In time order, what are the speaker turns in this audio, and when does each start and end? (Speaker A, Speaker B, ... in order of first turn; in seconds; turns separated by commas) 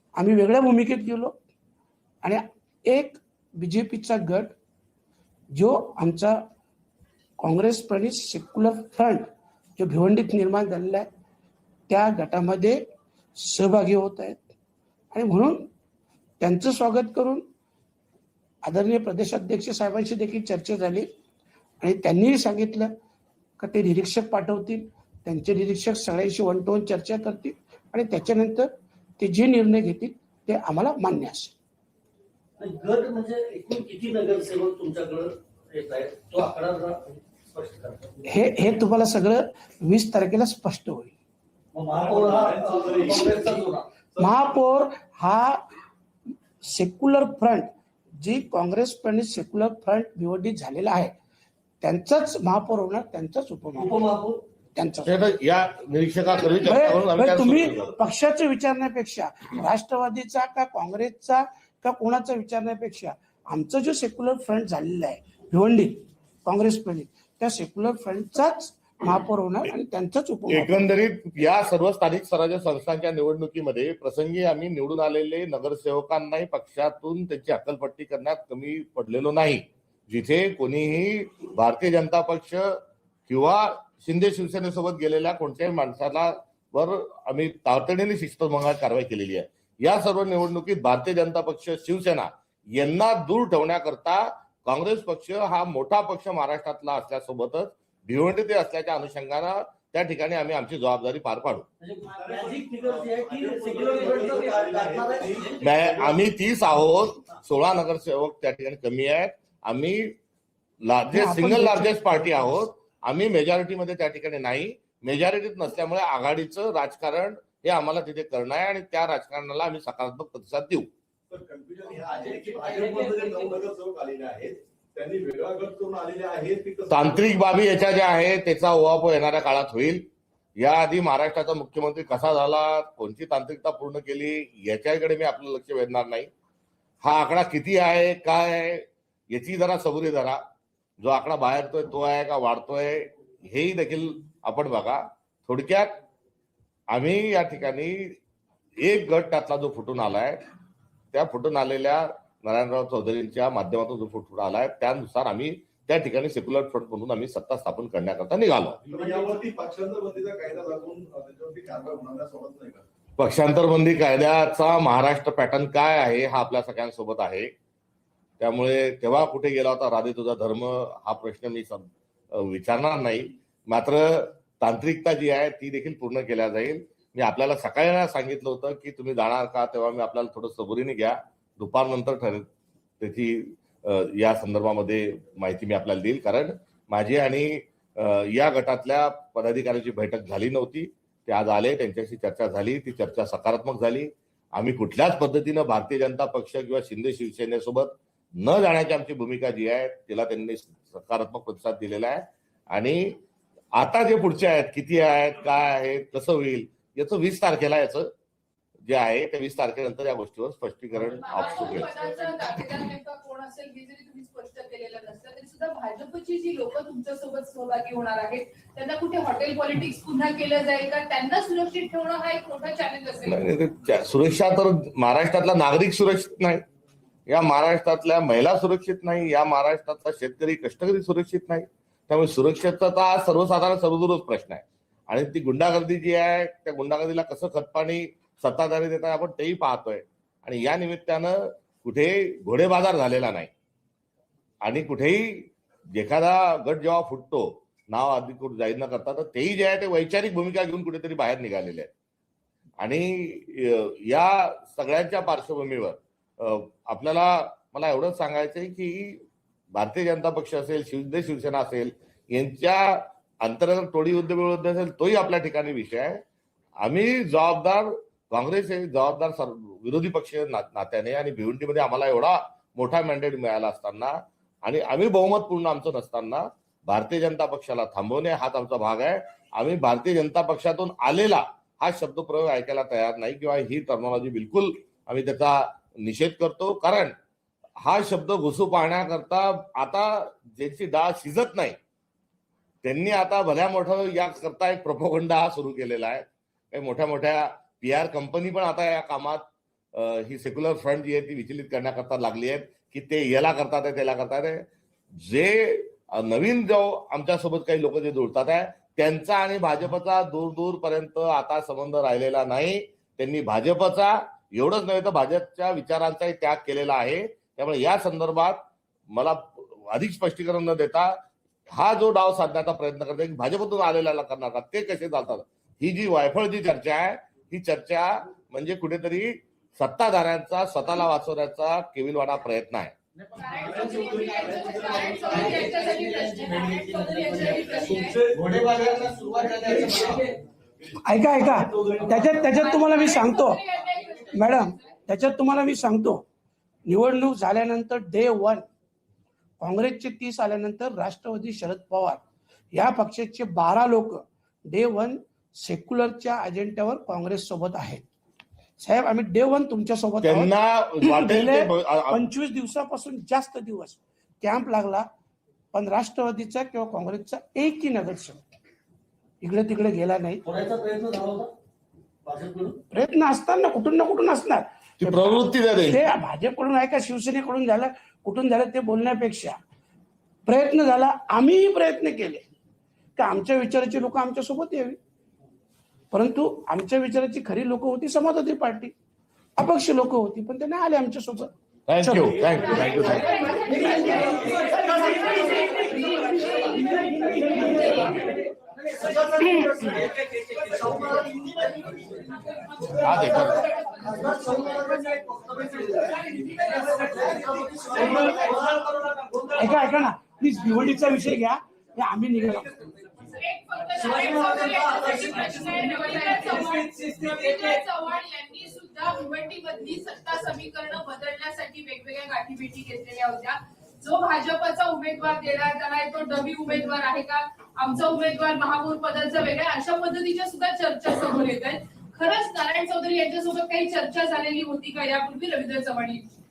Speaker A: 0.2-1.4, Speaker A: 2.2-4.6, Speaker A: 5.5-6.4, Speaker A: 7.4-11.1, Speaker A: 11.9-12.8, Speaker A: 13.4-14.4, Speaker A: 15.1-15.7, Speaker A: 16.4-17.4, Speaker A: 18.6-21.1, Speaker A: 21.8-22.9, Speaker A: 23.6-31.6, Speaker B: 32.6-38.1, Speaker A: 38.3-41.1, Speaker B: 41.7-43.9, Speaker C: 41.9-43.6, Speaker A: 44.2-45.7, Speaker A: 46.6-51.1, Speaker A: 51.8-54.1, Speaker B: 53.8-54.4, Speaker A: 54.8-55.1, Speaker D: 55.0-57.9, Speaker A: 56.6-70.7, Speaker D: 70.5-101.7, Speaker B: 101.8-105.7, Speaker C: 102.1-106.2, Speaker D: 105.6-110.2, Speaker D: 110.8-120.9, Speaker A: 111.1-111.9, Speaker C: 121.3-127.4, Speaker B: 122.2-123.6, Speaker D: 126.9-136.3, Speaker D: 137.0-140.4, Speaker D: 141.0-146.0, Speaker D: 146.9-148.2, Speaker D: 148.8-150.4, Speaker D: 151.1-158.8, Speaker C: 158.8-162.8, Speaker B: 158.9-159.3, Speaker D: 163.2-167.5, Speaker D: 168.4-182.5, Speaker D: 183.0-203.2, Speaker D: 203.7-208.1, Speaker D: 208.8-211.9, Speaker E: 211.2-223.4, Speaker D: 223.3-226.6, Speaker D: 227.3-243.5, Speaker D: 244.6-251.9, Speaker D: 252.8-259.2, Speaker D: 259.7-266.2, Speaker D: 266.8-287.2, Speaker D: 287.8-291.8, Speaker D: 292.8-332.9, Speaker B: 333.2-340.4, Speaker E: 333.4-338.2, Speaker C: 337.9-338.4, Speaker C: 339.6-340.2, Speaker A: 341.1-343.6, Speaker C: 341.4-342.4, Speaker B: 341.8-342.4, Speaker E: 342.5-344.9, Speaker A: 344.3-346.2, Speaker A: 346.9-348.7, Speaker A: 349.6-352.2, Speaker A: 352.7-358.1, Speaker A: 358.8-365.1, Speaker D: 360.2-362.2, Speaker A: 365.7-368.5, Speaker A: 369.4-370.4, Speaker B: 370.4-371.5, Speaker B: 372.2-372.8, Speaker A: 372.9-379.6, Speaker D: 375.0-376.0, Speaker A: 380.5-382.4, Speaker A: 383.2-385.0, Speaker A: 386.1-388.9, Speaker A: 389.6-392.6, Speaker D: 391.9-393.6, Speaker E: 392.5-396.8, Speaker B: 393.4-409.9, Speaker A: 399.4-399.7, Speaker D: 403.0-403.7, Speaker A: 409.6-412.8, Speaker E: 413.3-436.2, Speaker B: 413.9-417.8